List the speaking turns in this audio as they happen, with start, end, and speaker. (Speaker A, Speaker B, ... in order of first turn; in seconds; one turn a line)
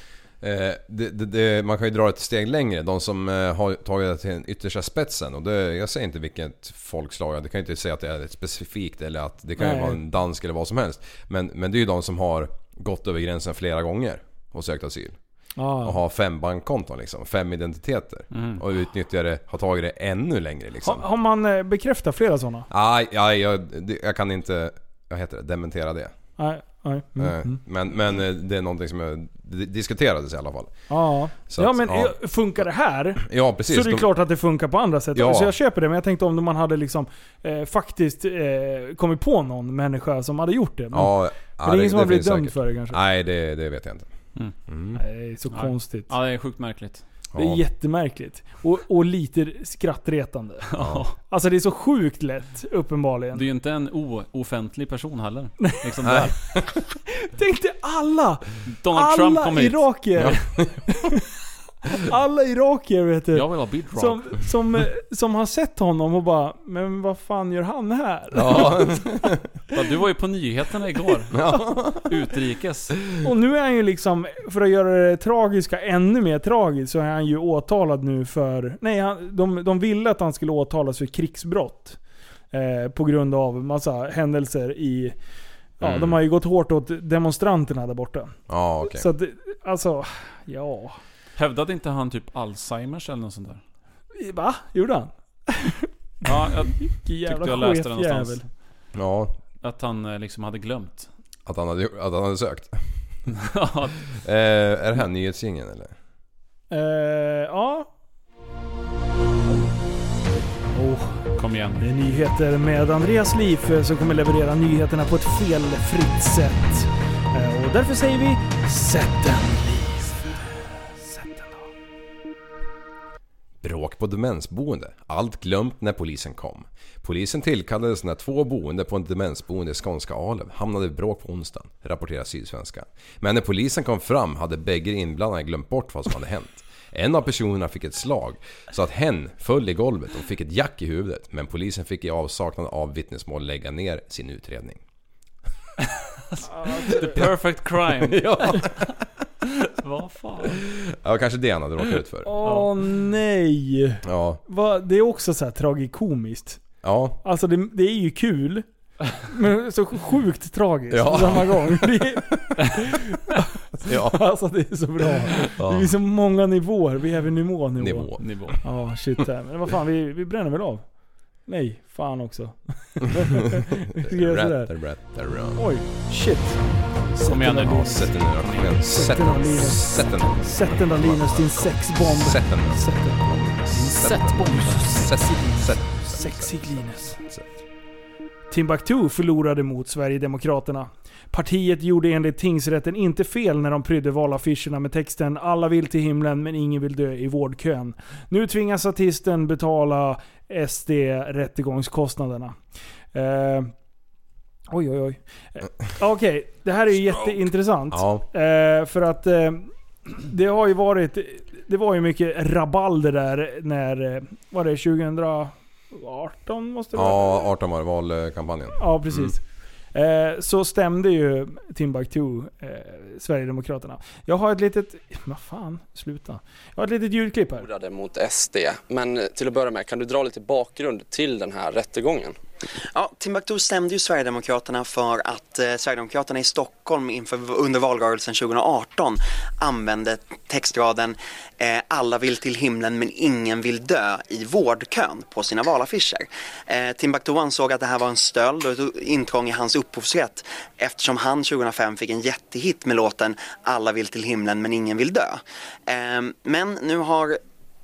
Speaker A: 0.4-15.2
Speaker B: 9.6-10.0
Speaker B: 15.6-16.0
Speaker A: 15.8-21.0
Speaker C: 18.3-18.6
Speaker B: 20.8-22.7
Speaker A: 22.7-26.1
Speaker B: 26.4-27.6
Speaker A: 27.2-30.7
Speaker B: 30.9-43.0
Speaker A: 31.5-32.1
Speaker A: 33.2-34.1
Speaker A: 35.1-35.5
Speaker A: 40.9-44.1
Speaker A: 44.7-45.0
Speaker B: 45.0-46.1
Speaker C: 45.5-47.0
Speaker A: 47.3-47.6
Speaker B: 47.3-50.6
Speaker C: 50.7-51.1
Speaker A: 50.8-51.0
Speaker B: 51.3-53.4
Speaker C: 53.3-56.3
Speaker A: 56.0-56.8
Speaker B: 57.1-61.2
Speaker C: 58.7-59.9
Speaker A: 60.2-60.7
Speaker B: 61.9-69.1
Speaker C: 63.3-64.4
Speaker A: 68.3-69.5
Speaker C: 69.7-71.4
Speaker A: 71.3-72.1
Speaker C: 72.0-73.0
Speaker B: 73.2-82.0
Speaker B: 82.5-85.1
Speaker B: 85.8-91.0
Speaker A: 85.8-86.2
Speaker A: 88.5-89.1
Speaker C: 91.4-93.6
Speaker B: 94.1-98.4
Speaker C: 96.2-98.4
Speaker A: 98.9-99.4
Speaker C: 99.6-101.1
Speaker A: 101.5-102.8
Speaker C: 103.3-104.0
Speaker A: 104.2-105.9
Speaker B: 106.7-107.9
Speaker B: 110.7-111.2
Speaker C: 111.4-111.8
Speaker B: 111.8-121.7
Speaker A: 123.6-144.8
Speaker C: 146.3-148.8
Speaker B: 146.6-147.0
Speaker A: 147.9-148.9
Speaker C: 149.6-150.6
Speaker A: 150.7-152.3
Speaker B: 152.2-156.6
Speaker A: 154.0-154.4
Speaker A: 156.8-157.2
Speaker B: 157.2-158.7
Speaker B: 159.2-170.8
Speaker A: 160.9-162.3
Speaker A: 163.8-164.2
Speaker A: 165.5-165.9
Speaker A: 167.8-168.6
Speaker C: 168.2-168.6
Speaker B: 171.5-174.7
Speaker A: 174.0-175.6
Speaker B: 175.5-176.6
Speaker B: 177.1-178.1
Speaker C: 177.3-178.7
Speaker A: 177.6-187.4
Speaker B: 178.8-183.2
Speaker B: 183.7-187.1
Speaker C: 184.0-184.8
Speaker B: 188.5-202.6
Speaker B: 203.1-203.7
Speaker B: 204.7-217.4
Speaker A: 207.9-208.2
Speaker A: 216.9-219.3
Speaker B: 218.8-219.4
Speaker B: 219.9-227.7
Speaker D: 227.6-232.4
Speaker E: 232.9-257.4